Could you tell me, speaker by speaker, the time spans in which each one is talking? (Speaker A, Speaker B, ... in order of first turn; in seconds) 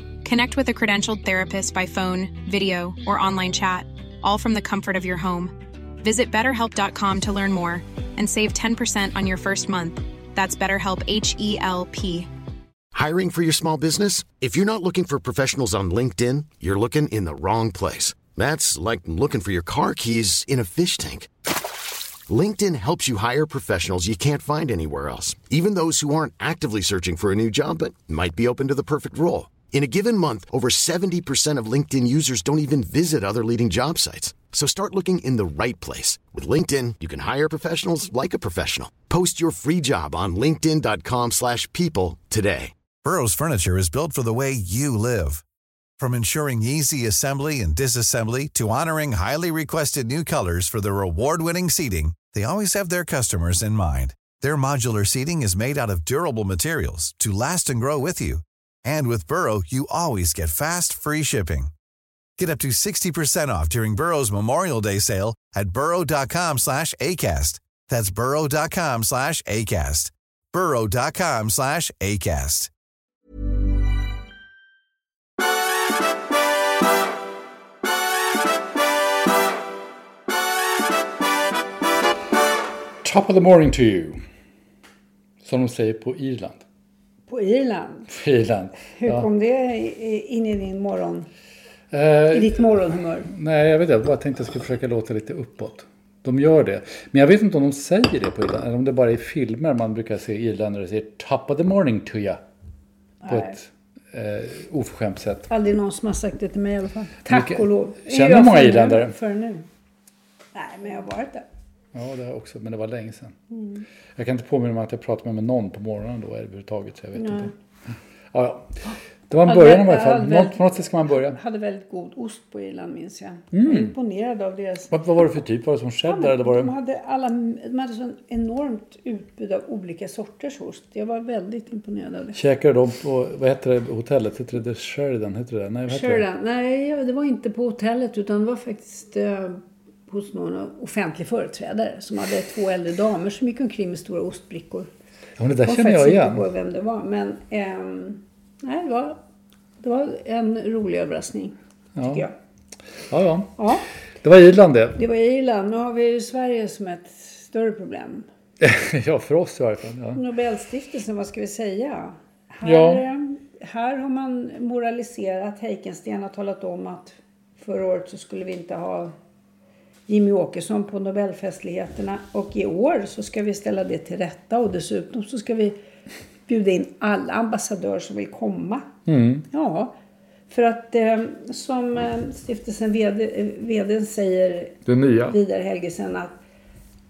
Speaker A: 0.2-12.3
Speaker B: 12.9-21.3, 22.3-42.7
Speaker C: 43.0-45.4, 46.0-61.7, 62.4-72.7
Speaker D: 83.0-84.2, 85.4-86.6, 88.1-89.3, 91.9-92.7, 93.2-102.4, 103.3-105.5, 107.2-109.1, 111.9-113.4, 114.2-117.5, 118.3-121.4, 123.5-123.9, 124.9-126.7, 132.3-136.2, 145.4-146.4, 151.9-152.2, 153.1-153.6, 154.2-155.0, 158.6-160.2, 162.6-163.0, 179.1-179.4, 184.8-185.4
Speaker E: 87.3-88.1, 88.9-91.3, 92.3-93.3, 103.2-103.5, 105.5-109.6, 110.5-111.5, 113.5-113.8, 117.2-117.5, 119.5-124.9, 126.1-132.4, 135.9-144.9, 145.6-149.2, 149.8-152.3, 153.6-153.8, 154.9-158.2, 160.1-169.1, 170.1-175.8, 176.5-178.9, 179.5-179.9, 180.5-186.3